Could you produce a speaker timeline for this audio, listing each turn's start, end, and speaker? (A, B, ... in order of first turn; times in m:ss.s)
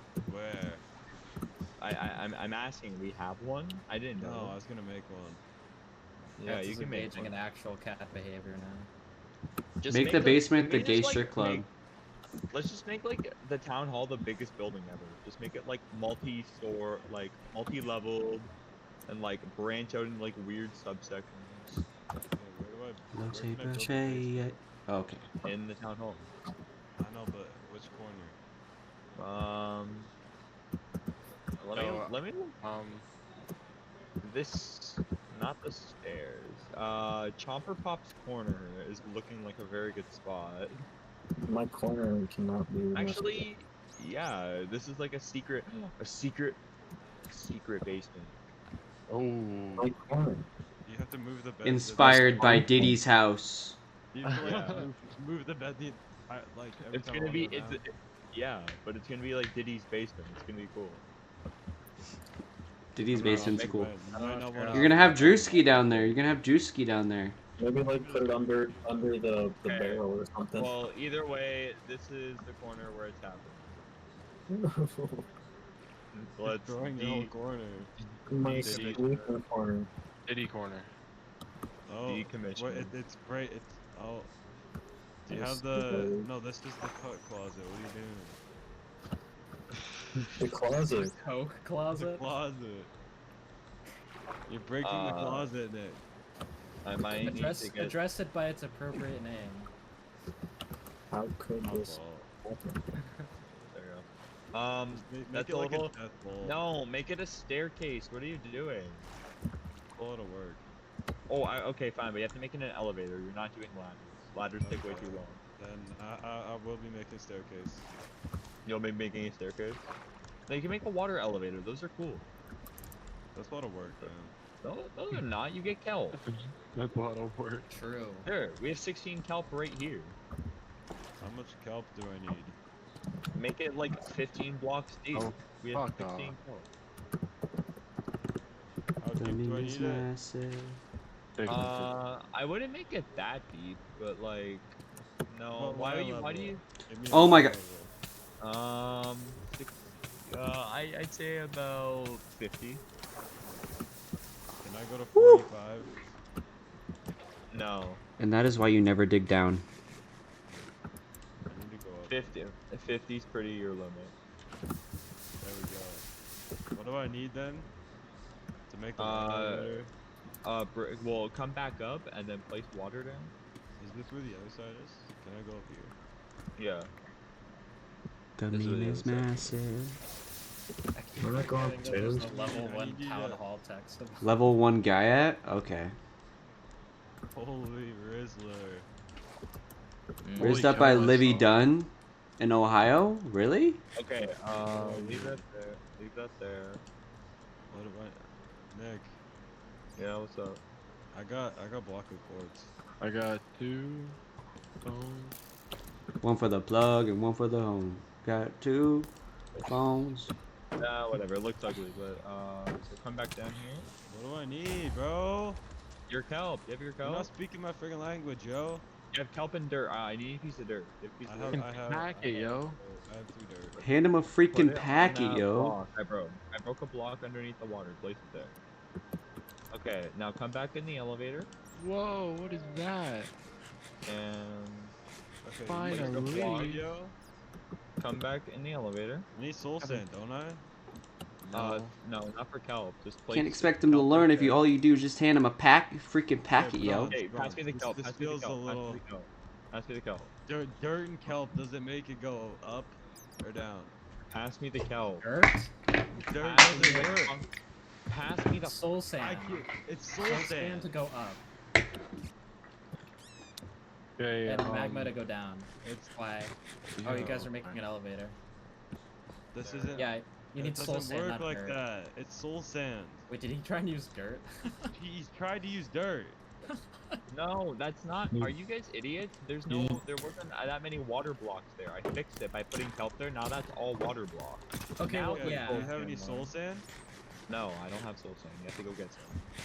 0:00.3-0:00.8 A
0:01.8-0:04.6 B
0:04.2-0:05.4 A
0:06.4-0:07.3 B
0:06.4-0:08.9 C
0:09.8-0:11.6 B
0:09.9-0:11.6 D
0:12.5-0:18.5 B
0:19.1-0:21.8 B
0:22.3-0:24.3 A
0:23.1-0:25.3 D
0:25.4-0:26.3 B
0:27.0-0:28.4 A
0:29.2-0:30.1 B
0:31.6-0:32.6 B
0:31.8-0:33.0 E
0:34.2-0:40.7 B
0:41.4-0:43.5 F
0:42.9-0:46.6 B
0:47.3-0:48.3 B
0:49.1-0:49.9 E
0:49.8-0:50.5 F
0:50.8-0:52.6 A
0:51.6-0:53.8 D
0:52.0-0:53.0 F
0:54.1-0:57.8 A
0:54.3-0:54.8 E
0:54.4-0:54.9 B
0:56.9-1:01.0 B
1:03.0-1:03.9 D
1:03.1-1:06.2 A
1:03.2-1:03.8 B
1:04.1-1:05.2 C
1:04.7-1:07.4 D
1:07.6-1:10.8 F
1:08.0-1:08.5 B
1:09.6-1:13.8 B
1:14.5-1:15.2 F
1:16.1-1:17.3 B
1:16.4-1:17.9 A
1:18.3-1:19.9 F
1:18.4-1:19.2 B
1:18.5-1:19.0 A
1:18.7-1:19.0 E
1:20.2-1:20.9 E
1:21.9-1:24.3 A
1:22.0-1:23.0 B
1:25.2-1:28.4 A
1:25.3-1:26.3 F
1:30.4-1:31.1 F
1:30.9-1:32.3 C
1:31.9-1:32.9 A
1:34.5-1:36.0 A
1:34.8-1:35.5 B
1:36.8-1:38.0 B
1:37.1-1:39.7 C
1:41.1-1:42.8 F
1:41.6-1:42.3 A
1:43.0-1:43.3 C
1:43.5-1:49.1 B
1:44.9-1:46.6 A
1:50.0-1:50.6 A
1:51.3-1:55.4 B
1:54.6-1:57.9 A
1:58.6-1:59.9 B
2:00.5-2:02.2 B
2:03.3-2:04.3 A
2:04.6-2:06.2 B
2:06.1-2:07.7 E
2:07.7-2:08.3 C
2:08.2-2:10.2 B
2:11.2-2:12.6 A
2:13.3-2:16.7 B
2:15.1-2:16.4 E
2:19.0-2:20.1 A
2:19.2-2:20.8 D
2:21.4-2:21.9 E
2:21.5-2:24.8 B
2:25.3-2:26.6 B
2:25.5-2:27.9 A
2:27.1-2:27.6 D
2:28.4-2:32.8 B
2:34.6-2:35.9 A
2:35.2-2:35.4 D
2:37.5-2:38.0 B
2:38.2-2:39.6 D
2:41.5-2:42.4 A
2:42.1-2:44.1 B
2:45.4-2:46.1 A
2:46.7-2:47.7 A
2:48.7-2:49.9 A
2:49.0-2:49.9 B
2:50.4-2:53.3 B
2:53.8-2:55.9 A
2:56.6-2:56.9 B
2:58.4-3:00.0 D
2:58.5-2:59.3 B
3:00.9-3:04.3 C
3:01.2-3:02.3 F
3:02.2-3:03.4 A
3:04.2-3:05.9 D
3:07.3-3:08.9 A
3:10.4-3:11.5 A
3:10.4-3:13.8 D
3:14.0-3:16.8 B
3:14.6-3:15.4 A
3:17.7-3:19.2 A
3:20.0-3:20.6 B
3:21.1-3:22.7 A
3:23.0-3:24.2 E
3:24.8-3:25.3 E
3:26.2-3:30.3 D
3:30.8-3:33.9 B
3:34.1-3:35.6 A
3:36.1-3:37.3 B
3:37.0-3:38.8 A
3:39.1-3:42.1 B
3:41.2-3:43.8 A
3:41.5-3:42.8 E
3:43.8-3:45.8 D
3:44.5-3:48.6 B
3:49.7-3:51.5 B
3:51.8-3:53.3 E
3:54.1-3:54.9 B
3:55.4-3:57.1 A
3:55.7-3:56.8 E
3:55.8-3:56.8 B
3:58.0-3:59.2 B
3:59.3-4:00.6 A
4:01.5-4:01.9 A
4:01.5-4:04.6 B
4:03.3-4:07.2 D
4:06.5-4:09.0 A
4:07.0-4:10.3 B
4:10.4-4:13.9 A
4:14.3-4:15.2 B
4:15.2-4:15.7 C
4:16.2-4:17.4 A
4:16.4-4:17.5 B
4:16.7-4:17.2 C
4:18.1-4:18.8 B
4:18.3-4:19.7 C
4:19.2-4:20.9 A
4:20.2-4:21.4 C
4:24.2-4:25.2 E
4:24.4-4:28.4 C
4:27.0-4:27.8 E
4:29.5-4:33.3 A
4:29.6-4:30.1 B
4:30.0-4:31.8 C
4:33.3-4:34.9 C
4:34.9-4:36.4 A
4:36.7-4:37.0 C
4:37.3-4:46.5 B
4:39.7-4:40.0 F
4:45.0-4:46.0 C
4:45.2-4:46.9 A
4:47.5-4:49.4 B